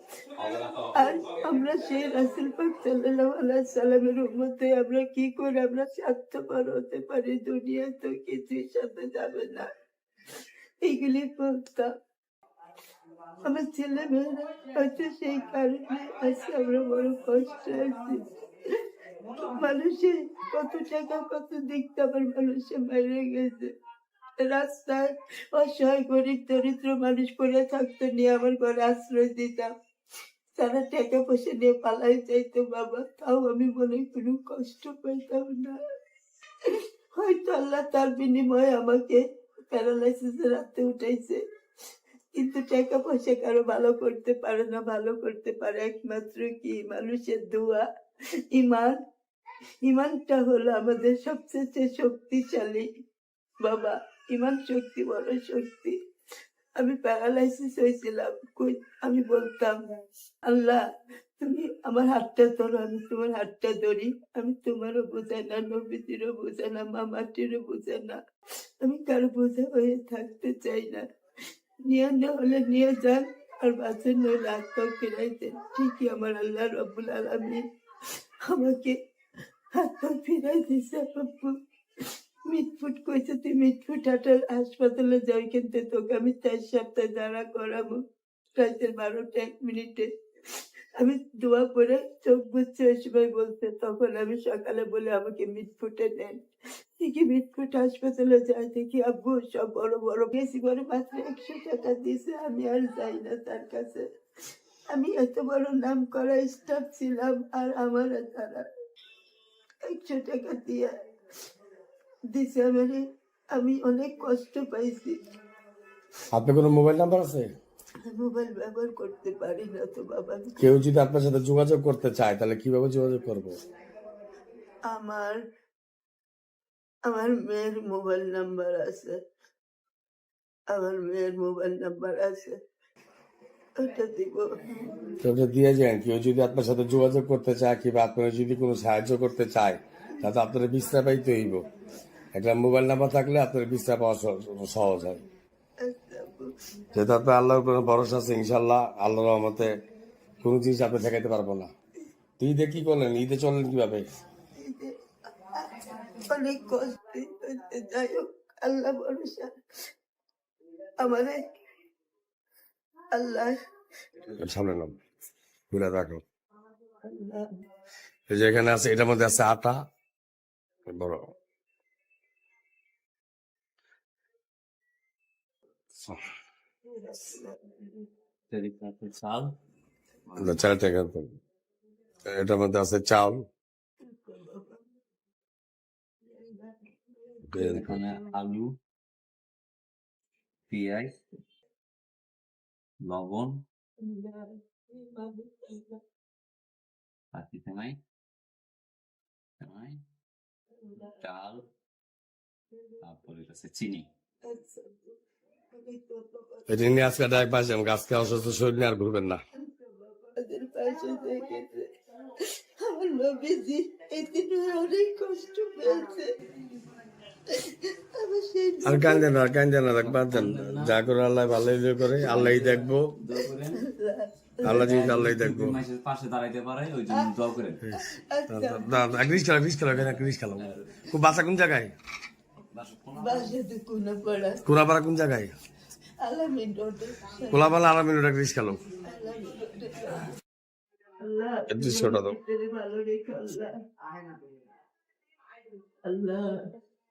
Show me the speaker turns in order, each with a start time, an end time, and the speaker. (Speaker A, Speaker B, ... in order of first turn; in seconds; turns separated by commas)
Speaker A: 0.4-1.4, Speaker B: 0.9-9.7, Speaker B: 10.8-11.9, Speaker B: 13.4-18.3, Speaker B: 19.3-23.7, Speaker B: 24.4-29.7, Speaker B: 30.6-35.8, Speaker B: 37.1-41.4, Speaker B: 42.3-47.9, Speaker B: 48.5-49.0, Speaker B: 49.8-52.9, Speaker B: 53.6-56.0, Speaker B: 56.8-59.8, Speaker B: 60.4-60.8, Speaker B: 61.4-68.2, Speaker B: 68.8-71.0, Speaker B: 71.8-77.6, Speaker B: 78.4-79.0, Speaker B: 79.7-81.6, Speaker B: 82.5-88.0, Speaker B: 88.6-90.1, Speaker B: 91.0-96.4, Speaker B: 97.0-104.1, Speaker B: 104.9-108.7, Speaker B: 109.8-110.9, Speaker B: 112.3-115.2, Speaker C: 116.3-117.5, Speaker B: 118.0-120.7, Speaker C: 120.6-123.6, Speaker B: 124.9-125.4, Speaker B: 127.0-129.2, Speaker B: 130.7-132.6, Speaker B: 133.8-135.1, Speaker C: 135.2-141.7, Speaker C: 142.3-145.2, Speaker B: 145.8-146.5, Speaker C: 146.9-149.8, Speaker C: 150.4-151.7, Speaker C: 152.4-154.0, Speaker B: 154.6-159.5, Speaker B: 161.0-161.4, Speaker B: 163.1-163.6, Speaker C: 164.4-165.0, Speaker C: 165.7-166.2, Speaker B: 167.0-167.5, Speaker C: 168.3-169.8, Speaker C: 170.9-171.3, Speaker B: 176.9-178.1, Speaker A: 178.5-179.5, Speaker A: 180.3-180.6, Speaker C: 180.4-181.3, Speaker C: 182.3-183.5, Speaker B: 184.0-184.8, Speaker B: 186.2-188.3, Speaker C: 187.5-187.9, Speaker A: 187.6-188.8, Speaker A: 190.7-191.2, Speaker A: 193.0-193.6, Speaker B: 194.0-196.0, Speaker A: 197.3-198.0, Speaker A: 199.6-200.0, Speaker B: 200.8-201.1, Speaker A: 201.2-201.7, Speaker A: 203.0-204.1, Speaker B: 204.5-205.2, Speaker B: 205.7-206.9, Speaker C: 206.7-209.4, Speaker B: 209.6-211.9, Speaker B: 212.7-216.3, Speaker B: 217.5-219.3, Speaker C: 218.8-223.1, Speaker A: 219.9-221.0, Speaker A: 222.2-223.8, Speaker B: 223.7-224.9, Speaker C: 224.6-225.8, Speaker A: 224.6-227.8, Speaker C: 227.8-231.9, Speaker B: 227.9-229.2, Speaker A: 230.6-231.1, Speaker A: 232.7-233.5, Speaker B: 233.2-234.6, Speaker C: 234.6-235.5, Speaker B: 236.2-237.7, Speaker C: 237.5-238.8, Speaker B: 238.9-240.3, Speaker B: 241.2-243.7, Speaker C: 241.7-242.4, Speaker B: 246.0-246.6